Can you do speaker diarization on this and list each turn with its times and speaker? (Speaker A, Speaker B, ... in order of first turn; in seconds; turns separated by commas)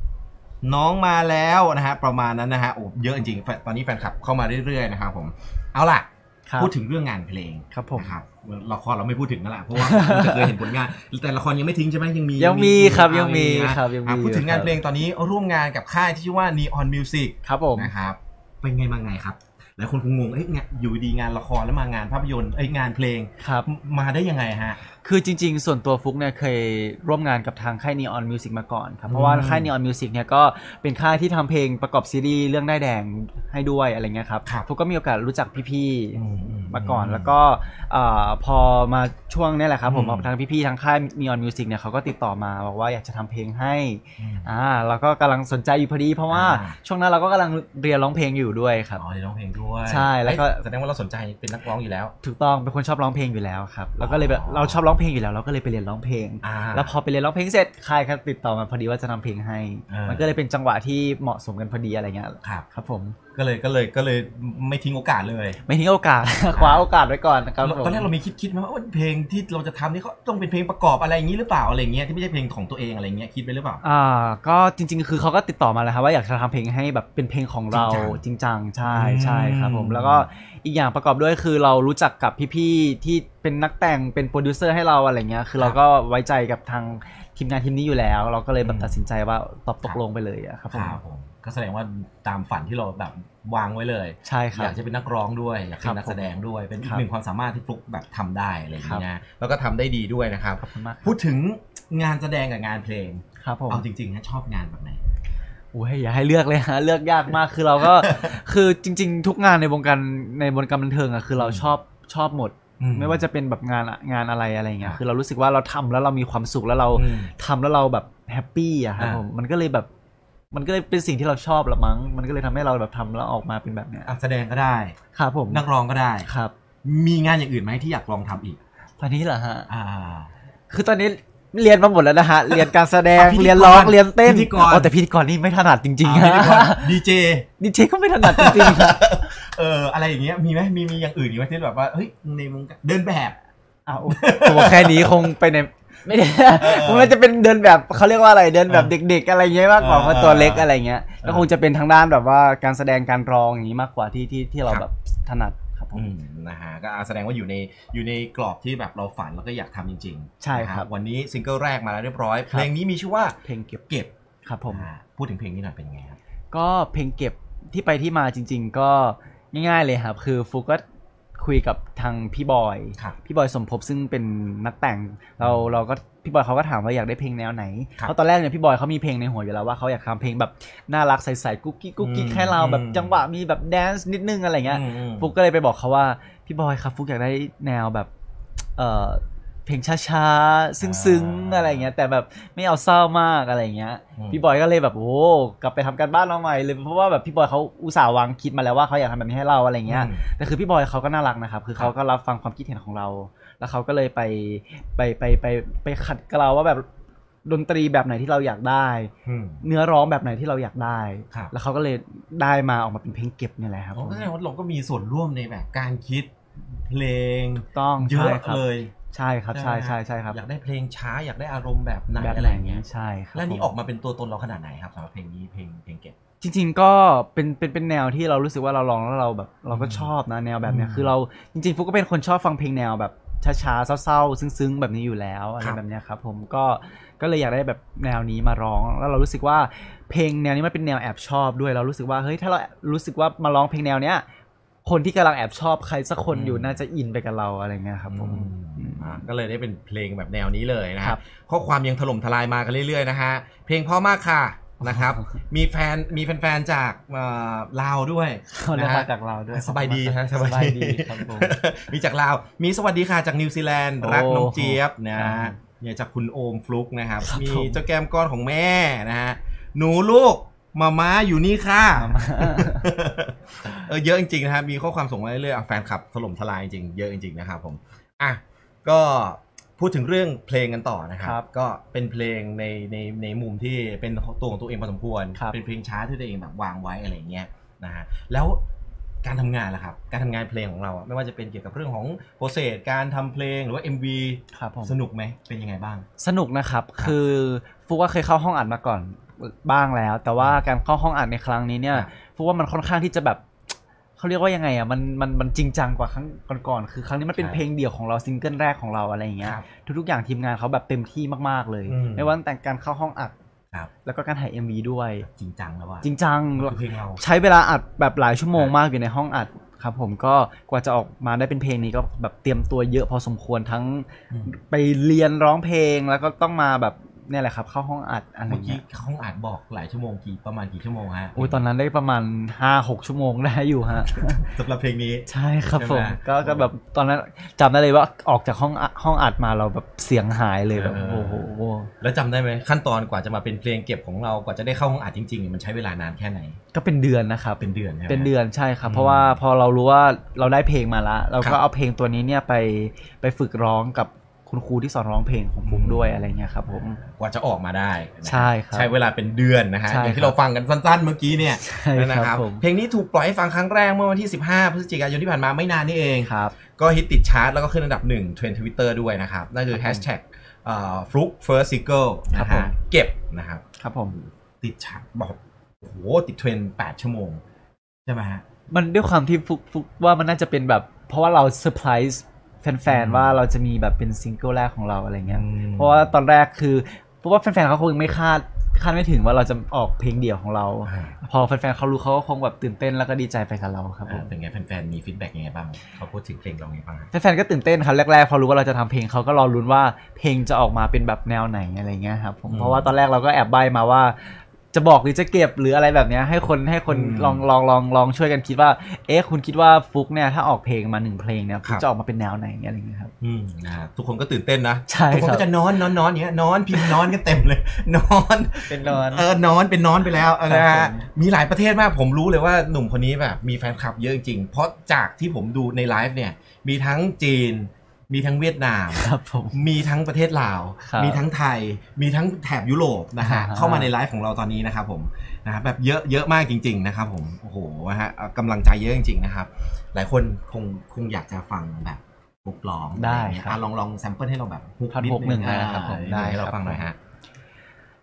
Speaker A: 0.6-24.8, Speaker B: 6.5-6.7, Speaker B: 7.7-8.1, Speaker B: 9.7-10.6, Speaker B: 12.4-14.8, Speaker B: 17.4-17.9, Speaker B: 23.4-23.7, Speaker B: 25.0-49.0, Speaker A: 29.1-29.7, Speaker A: 36.1-37.4, Speaker A: 39.9-40.3, Speaker A: 44.2-44.5, Speaker A: 46.3-46.8, Speaker A: 49.0-52.1, Speaker B: 49.8-50.6, Speaker B: 52.2-63.2, Speaker A: 54.0-54.8, Speaker A: 56.4-57.0, Speaker A: 59.9-60.3, Speaker A: 63.3-65.6, Speaker B: 65.6-68.1, Speaker A: 66.5-66.9, Speaker A: 67.6-73.8, Speaker B: 73.8-91.0, Speaker A: 77.7-78.2, Speaker A: 78.8-80.3, Speaker A: 88.6-89.0, Speaker A: 90.7-105.0, Speaker B: 94.2-94.7, Speaker B: 95.8-96.2, Speaker B: 98.8-99.0, Speaker B: 100.6-101.2, Speaker B: 103.4-103.8, Speaker B: 105.7-119.9, Speaker A: 108.0-108.3, Speaker A: 111.4-111.7, Speaker A: 112.8-113.2, Speaker A: 116.9-117.3, Speaker A: 119.0-119.2, Speaker B: 120.5-124.1, Speaker A: 124.0-125.0, Speaker B: 125.1-125.6, Speaker A: 125.5-126.3, Speaker B: 126.2-126.5, Speaker A: 126.8-128.6, Speaker B: 129.0-129.7, Speaker A: 129.7-130.3, Speaker B: 130.7-137.0, Speaker A: 132.5-134.9, Speaker A: 136.0-137.5, Speaker B: 137.6-139.1, Speaker A: 138.2-143.4, Speaker B: 143.9-156.1, Speaker A: 144.1-145.3, Speaker A: 146.6-147.1, Speaker A: 148.7-148.9, Speaker A: 149.8-150.7, Speaker A: 155.9-164.1, Speaker B: 160.4-160.9, Speaker B: 163.4-163.8, Speaker B: 164.4-164.9, Speaker A: 164.7-166.2, Speaker B: 166.5-170.8, Speaker B: 171.4-188.1, Speaker A: 175.4-175.8, Speaker A: 182.0-183.2, Speaker A: 184.7-185.3, Speaker B: 188.8-206.8, Speaker A: 190.8-191.9, Speaker A: 194.2-194.4, Speaker A: 199.9-200.2, Speaker B: 207.4-214.3, Speaker A: 209.2-209.6, Speaker A: 213.9-218.9, Speaker B: 217.7-220.4, Speaker A: 219.5-226.1, Speaker B: 222.2-223.7, Speaker B: 226.4-244.2, Speaker A: 229.7-230.1, Speaker A: 230.6-231.1, Speaker B: 244.8-249.2, Speaker A: 246.3-246.8, Speaker A: 248.1-288.6, Speaker B: 254.8-255.3, Speaker B: 258.5-261.6, Speaker B: 264.0-265.6, Speaker B: 267.2-267.8, Speaker B: 271.9-272.9, Speaker A: 289.2-296.1, Speaker B: 294.5-294.9, Speaker B: 296.2-303.4, Speaker A: 300.4-300.6, Speaker B: 304.2-313.3, Speaker A: 307.4-307.6, Speaker A: 309.4-309.7, Speaker A: 311.9-312.3, Speaker B: 314.0-315.3, Speaker A: 315.2-317.2, Speaker B: 316.0-328.8, Speaker A: 328.5-331.6, Speaker B: 331.4-334.4, Speaker A: 334.1-336.7, Speaker B: 335.3-341.9, Speaker A: 340.7-341.5, Speaker A: 342.0-346.6, Speaker B: 346.7-357.0, Speaker A: 347.6-348.3, Speaker A: 348.8-349.4, Speaker A: 355.6-373.6, Speaker B: 358.2-358.9, Speaker B: 359.9-360.4, Speaker B: 361.5-362.6, Speaker B: 366.2-366.5, Speaker B: 369.7-370.0, Speaker B: 372.3-372.7, Speaker B: 373.8-374.2, Speaker A: 374.1-377.4, Speaker A: 378.1-378.4, Speaker B: 378.7-394.3, Speaker A: 382.9-383.4, Speaker A: 385.2-386.1, Speaker A: 390.9-391.2, Speaker A: 394.1-397.1, Speaker B: 397.1-413.1, Speaker A: 402.5-402.9, Speaker A: 406.9-407.5, Speaker A: 413.2-446.9, Speaker B: 414.9-415.5, Speaker B: 416.7-417.1, Speaker B: 418.6-419.3, Speaker B: 420.4-421.1, Speaker B: 428.9-429.6, Speaker B: 430.8-431.2, Speaker B: 433.2-433.9, Speaker B: 442.9-443.6, Speaker B: 444.9-446.9